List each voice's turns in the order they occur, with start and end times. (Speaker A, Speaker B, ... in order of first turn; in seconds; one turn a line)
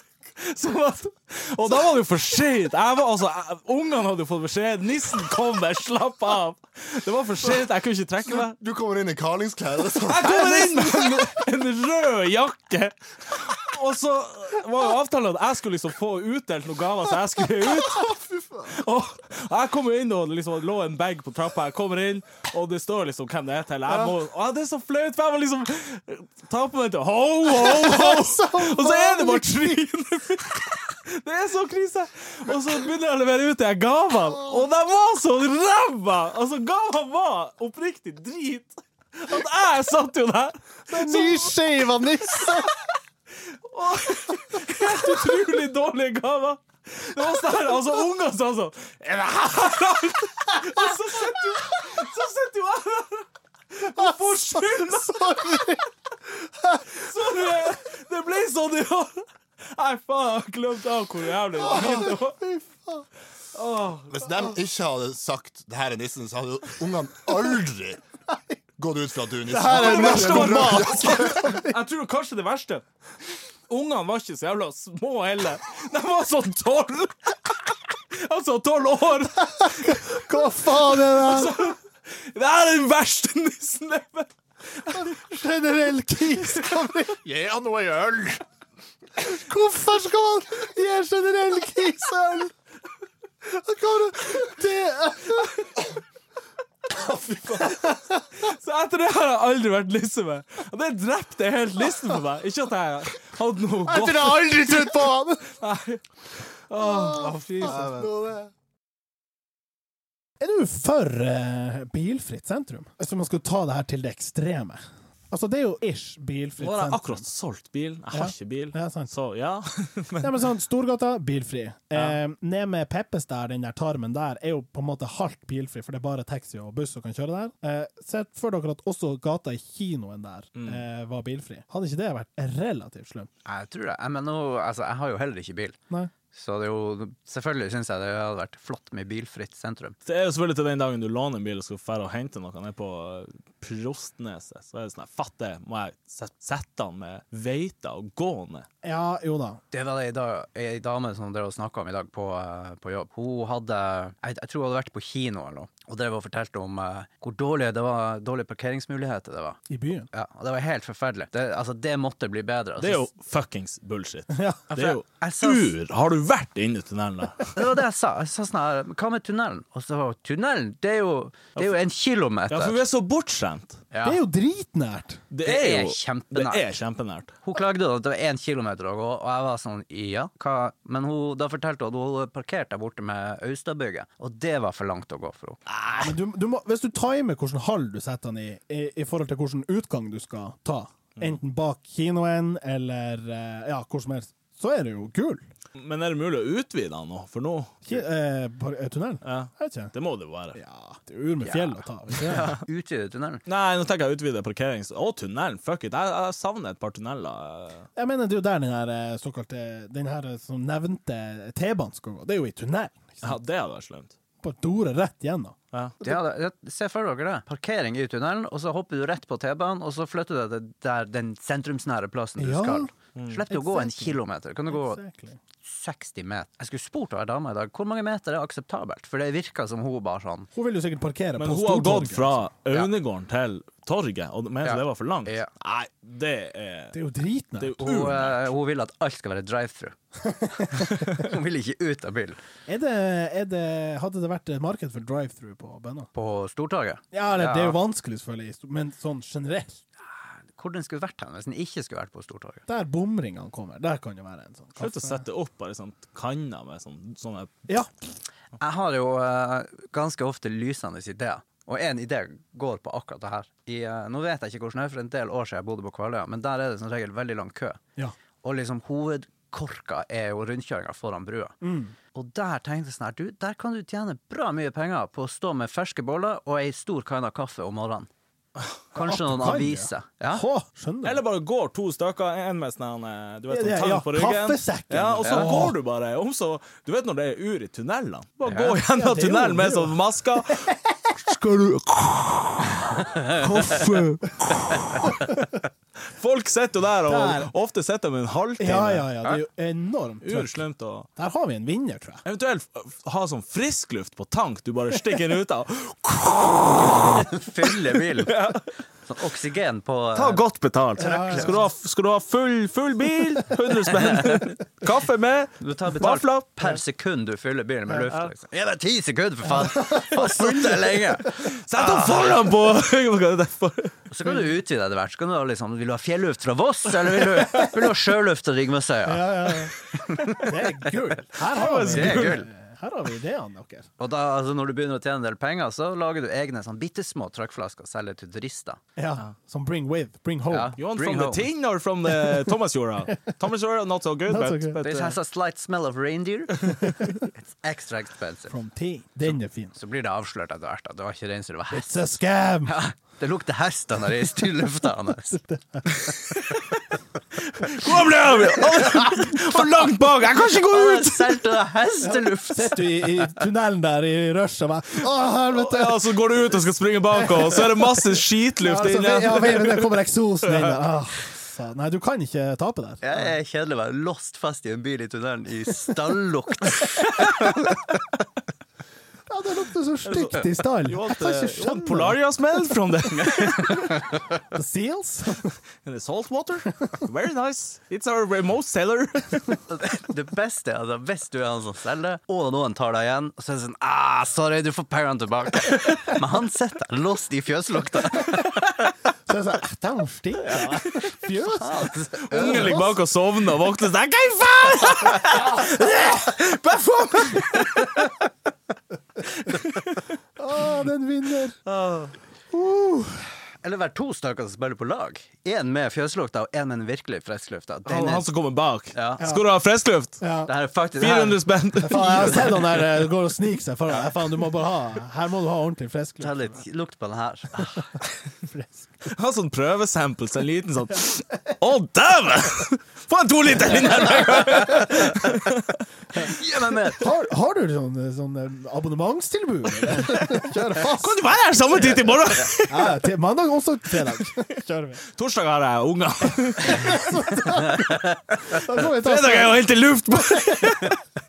Speaker A: 0.4-8.6
Speaker B: 8.3-11.3
Speaker A: 10.0-18.1
Speaker A: 18.6-41.5
Speaker C: 27.6-29.6
Speaker C: 40.9-42.7
Speaker A: 42.4-42.7
Speaker A: 43.4-55.8
Speaker C: 54.7-55.8
Speaker A: 56.9-62.4
Speaker C: 61.6-63.0
Speaker A: 63.5-64.3
Speaker B: 64.1-68.0
Speaker B: 68.8-71.6
Speaker C: 69.5-71.7
Speaker A: 69.6-72.8
Speaker A: 73.7-85.2
Speaker C: 79.6-81.6
Speaker C: 85.1-87.2
Speaker B: 87.2-88.4
Speaker C: 89.2-92.5
Speaker C: 93.5-95.6
Speaker B: 97.0-97.7
Speaker A: 98.4-104.8
Speaker C: 103.9-105.4
Speaker A: 105.6-106.1
Speaker A: 106.7-108.0
Speaker C: 107.1-108.1
Speaker B: 107.2-108.5
Speaker C: 110.4-114.8
Speaker C: 115.3-117.3
Speaker A: 116.6-120.4
Speaker C: 118.1-119.1
Speaker C: 120.2-133.3
Speaker A: 130.6-130.8
Speaker D: 133.4-135.8
Speaker D: 136.3-139.9
Speaker A: 140.0-148.7
Speaker C: 148.8-149.6
Speaker D: 149.7-159.6
Speaker C: 159.7-160.1
Speaker D: 160.1-163.1
Speaker A: 162.8-167.5
Speaker C: 164.3-164.7
Speaker D: 164.8-165.7
Speaker D: 167.5-172.8
Speaker A: 172.5-173.8
Speaker D: 173.9-174.2
Speaker C: 174.0-175.2
Speaker A: 175.3-177.3
Speaker D: 175.4-176.6
Speaker D: 177.4-185.6
Speaker A: 185.7-186.1
Speaker C: 186.0-195.4
Speaker A: 195.8-198.0
Speaker C: 197.8-199.9
Speaker A: 199.2-200.6
Speaker C: 200.5-202.4
Speaker D: 201.4-203.4
Speaker A: 203.4-207.9
Speaker C: 207.9-213.4
Speaker A: 213.2-214.1
Speaker C: 214.4-216.2
Speaker D: 216.0-225.0
Speaker C: 222.4-222.9
Speaker A: 223.2-223.4
Speaker C: 223.5-225.4
Speaker D: 225.6-230.5
Speaker C: 230.5-232.4
Speaker A: 231.4-237.0
Speaker D: 234.6-235.5
Speaker C: 236.9-238.3
Speaker A: 237.6-238.5
Speaker D: 237.8-242.4
Speaker C: 242.7-246.1
Speaker D: 246.1-247.8
Speaker C: 247.1-249.8
Speaker D: 250.5-252.6
Speaker C: 252.7-255.2
Speaker A: 254.8-257.6
Speaker D: 258.6-267.8
Speaker D: 268.4-271.6
Speaker C: 271.6-271.9
Speaker D: 272.1-278.1
Speaker D: 278.9-280.4
Speaker C: 278.9-281.2
Speaker A: 281.0-290.7
Speaker C: 283.5-285.7
Speaker D: 284.9-285.7
Speaker D: 288.5-288.8
Speaker C: 288.9-290.5
Speaker C: 291.1-295.3
Speaker A: 296.1-299.1
Speaker C: 297.1-297.5
Speaker C: 298.6-300.6
Speaker A: 300.2-301.1
Speaker C: 301.1-302.2
Speaker A: 302.2-307.3
Speaker D: 306.8-308.4
Speaker A: 308.2-308.6
Speaker D: 309.1-310.4
Speaker A: 310.1-316.8
Speaker D: 311.0-311.6
Speaker C: 311.0-311.6
Speaker D: 315.6-322.4
Speaker C: 320.0-321.0
Speaker A: 321.3-324.0
Speaker D: 324.1-329.5
Speaker C: 329.1-329.8
Speaker D: 330.1-330.5
Speaker C: 330.4-333.9
Speaker A: 331.5-332.4
Speaker D: 331.9-332.5
Speaker D: 334.0-338.8
Speaker C: 338.9-340.7
Speaker D: 340.5-341.4
Speaker A: 340.8-345.2
Speaker C: 344.3-344.8
Speaker D: 344.8-348.5
Speaker C: 348.5-349.7
Speaker D: 349.8-352.0
Speaker C: 351.7-352.8
Speaker D: 352.6-355.4
Speaker C: 355.3-355.8
Speaker A: 356.0-356.8
Speaker A: 357.3-361.5
Speaker D: 358.5-359.2
Speaker D: 360.5-363.3
Speaker C: 362.0-366.1
Speaker A: 365.5-369.9
Speaker C: 367.2-368.0
Speaker C: 368.6-373.0
Speaker A: 370.4-370.7
Speaker D: 373.0-377.6
Speaker C: 379.3-382.1
Speaker A: 380.0-383.9
Speaker D: 383.2-383.8
Speaker C: 384.5-385.6
Speaker A: 385.8-389.6
Speaker D: 389.7-398.4
Speaker C: 399.3-402.7
Speaker D: 401.6-402.9
Speaker A: 402.3-408.1
Speaker A: 409.4-410.1
Speaker C: 410.4-411.6
Speaker D: 411.7-412.1
Speaker C: 412.5-413.2
Speaker D: 413.6-418.2
Speaker A: 417.8-420.2
Speaker D: 418.9-419.2
Speaker C: 420.2-420.5
Speaker D: 420.4-422.7
Speaker A: 421.0-422.6
Speaker C: 421.9-426.6
Speaker D: 426.2-428.0
Speaker C: 428.5-428.9
Speaker A: 429.1-435.8
Speaker D: 434.1-434.4
Speaker D: 436.2-437.1
Speaker C: 437.0-441.2
Speaker A: 439.9-440.2
Speaker A: 440.9-442.9
Speaker C: 442.7-445.0
Speaker A: 445.1-447.1
Speaker C: 446.8-450.7
Speaker A: 449.0-451.0